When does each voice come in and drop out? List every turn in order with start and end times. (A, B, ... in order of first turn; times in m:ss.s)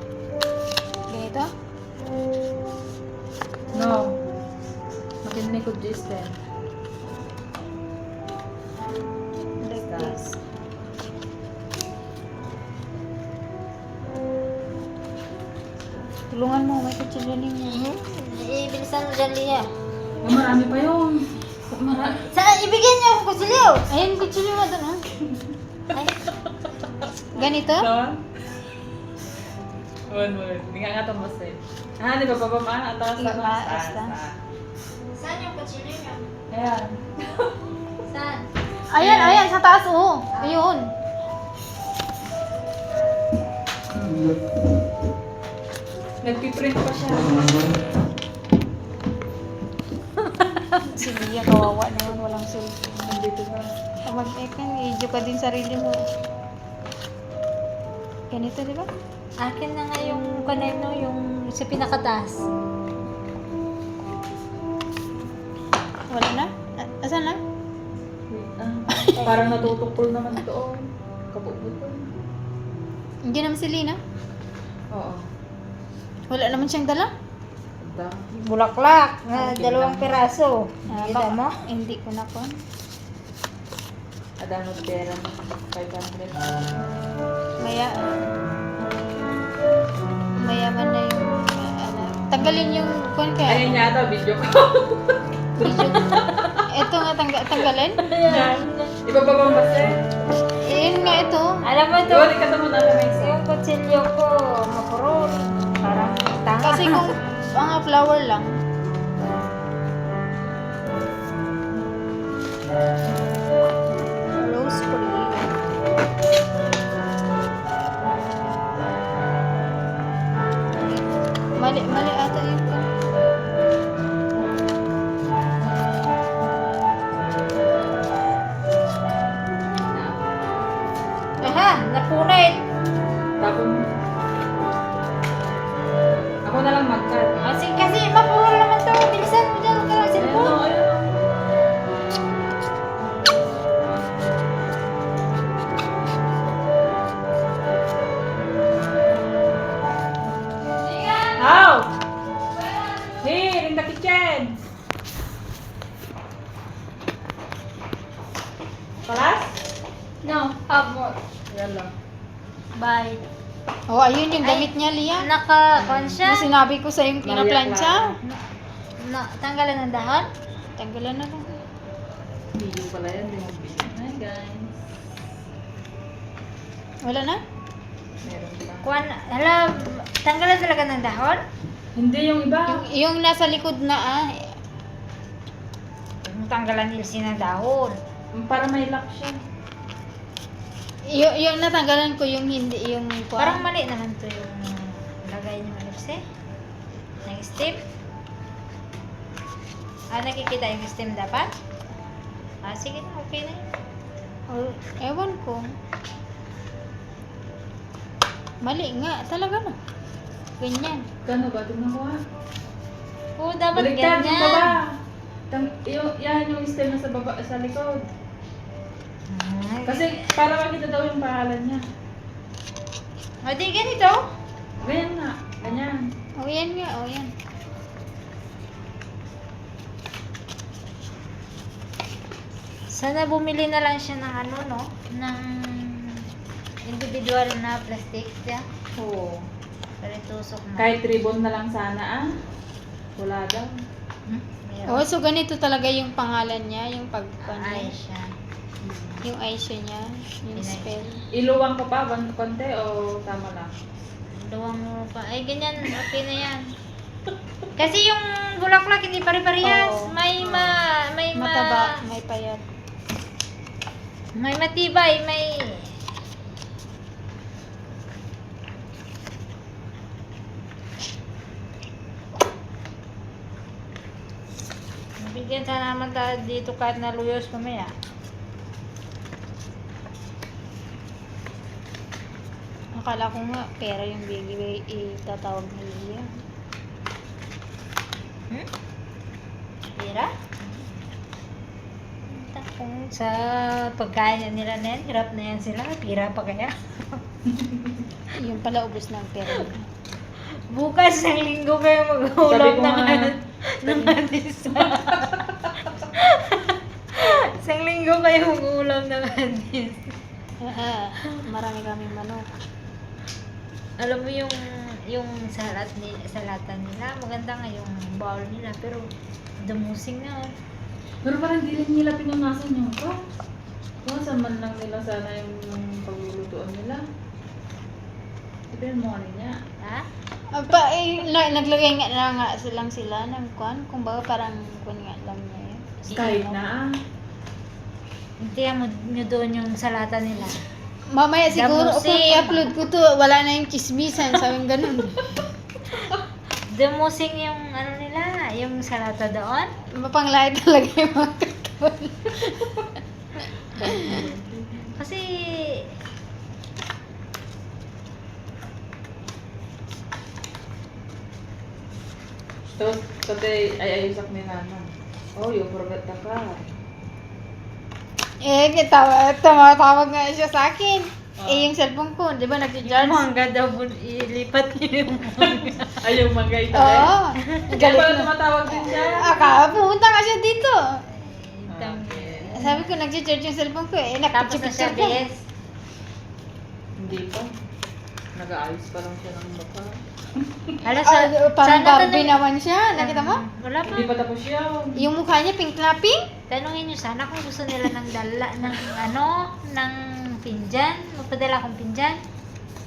0:01.1-0:01.5 A
0:03.7-0:04.2 B
0:05.2-0:06.3 B
0:09.6-0:10.4 A
0:09.8-0:10.2 B
0:16.3-0:17.8 A
0:17.7-0:19.7 C
0:20.2-0:22.3 B
0:22.3-0:23.8 C
0:23.8-0:25.0 A
0:27.3-0:27.9 A
0:27.6-0:28.2 B
0:30.1-0:34.4 B
0:33.2-0:34.2 A
0:35.1-0:36.3 C
0:36.5-0:37.5 B
0:38.0-0:39.5 C
0:38.9-0:40.9 A
0:40.4-0:40.6 C
0:46.2-0:47.4 B
0:50.8-0:53.0 A
0:53.0-0:53.8 B
0:54.0-0:56.0 A
0:58.3-0:58.9 A
0:59.4-1:02.4 C
1:06.1-1:07.4 A
1:08.3-1:12.1 B
1:09.2-1:09.4 A
1:13.2-1:14.0 A
1:14.9-1:15.2 B
1:16.3-1:17.1 A
1:17.8-1:18.2 B
1:18.4-1:21.6 C
1:19.4-1:20.2 B
1:20.9-1:22.5 A
1:24.4-1:26.5 B
1:27.6-1:28.2 A
1:30.4-1:33.7 A
1:33.4-1:36.6 B
1:35.6-1:36.2 C
1:36.7-1:38.0 A
1:38.0-1:38.9 C
1:38.2-1:40.0 B
1:40.6-1:41.6 A
1:41.6-1:42.4 C
1:42.1-1:43.4 B
1:43.1-1:47.1 C
1:46.6-1:48.5 A
1:54.4-1:55.5 A
2:01.6-2:02.9 A
2:09.7-2:10.4 B
2:11.4-2:12.6 C
2:13.4-2:13.9 B
2:16.4-2:17.3 B
2:17.4-2:20.6 C
2:20.2-2:21.1 B
2:31.3-2:31.9 B
2:33.2-2:34.6 B
2:39.0-2:39.6 B
2:40.2-2:41.2 C
2:41.5-2:41.9 B
2:42.8-2:43.2 C
2:43.9-2:45.3 A
2:44.4-2:46.5 C
2:45.8-2:46.2 B
2:46.2-2:48.2 A
2:47.2-2:48.1 B
2:49.0-2:50.3 C
2:50.8-2:51.6 A
2:52.5-2:54.8 B
2:57.0-2:57.4 A
2:58.2-2:58.8 B
2:58.8-3:01.4 C
3:01.9-3:02.8 B
3:02.7-3:04.6 A
3:06.2-3:08.0 C
3:08.4-3:09.4 B
3:11.1-3:13.6 A
3:13.4-3:16.2 C
3:17.2-3:17.8 C
3:20.1-3:21.5 C
3:22.6-3:23.6 C
3:24.5-3:25.6 A
3:28.6-3:29.8 A
3:30.6-3:31.1 A
3:31.2-3:32.2 B
3:33.4-3:34.8 C
3:33.7-3:34.9 B
3:35.5-3:38.1 B
3:39.3-3:40.2 C
3:39.8-3:41.8 B
3:43.4-3:44.2 C
3:44.8-3:46.1 B
3:46.4-3:47.3 A
3:52.9-3:56.3 C
3:56.8-3:58.6 C
3:59.0-3:59.4 B
4:00.0-4:00.9 C
4:00.8-4:02.3 B
4:03.2-4:03.7 B
4:04.3-4:05.1 C
4:04.9-4:07.9 A
4:07.4-4:08.3 C
4:08.8-4:09.2 B
4:09.2-4:11.2 A
4:10.5-4:10.9 C
4:11.3-4:13.7 B
4:14.3-4:16.7 C
4:17.8-4:21.9 C
4:19.6-4:20.2 A
4:20.4-4:20.8 B
4:21.4-4:22.6 A
4:24.3-4:25.9 C
4:35.2-4:37.9 C
4:43.0-4:46.3 A
4:50.0-4:50.7 C
4:52.3-4:57.2 C
4:57.5-4:58.0 B
4:58.3-4:59.8 A
5:00.6-5:05.3 C
5:02.5-5:04.2 B
5:04.7-5:05.7 B
5:05.9-5:10.1 C
5:10.6-5:12.5 A
5:14.0-5:19.1 C
5:19.6-5:20.5 C
5:21.2-5:23.2 B
5:24.0-5:27.0 B
5:28.7-5:29.6 B
5:29.8-5:30.1 C
5:30.5-5:36.5 A
5:36.1-5:36.4 C
5:36.1-5:36.9 B
5:38.4-5:40.6 C
5:41.1-5:45.4 A
5:41.5-5:42.7 C
5:46.7-5:49.7 C
5:49.9-5:52.6 A
5:53.7-5:55.0 B
5:53.8-5:54.2 A
5:55.0-5:55.9 C
6:02.7-6:06.6 B
6:08.4-6:13.2 A
6:11.4-6:11.7 B
6:12.8-6:16.0 C
6:15.6-6:19.4 B
6:16.7-6:18.3 A
6:17.4-6:17.8 C
6:18.9-6:21.0 A
6:21.1-6:22.9 C
6:21.7-6:22.6 B
6:22.6-6:25.2 A
6:24.3-6:25.4 C
6:27.0-6:27.5 B
6:28.4-6:30.8 B
6:30.8-6:32.3 C
6:31.0-6:33.4 A
6:32.9-6:34.1 C
6:33.8-6:35.1 B
6:35.0-6:36.2 A
6:36.5-6:42.2 C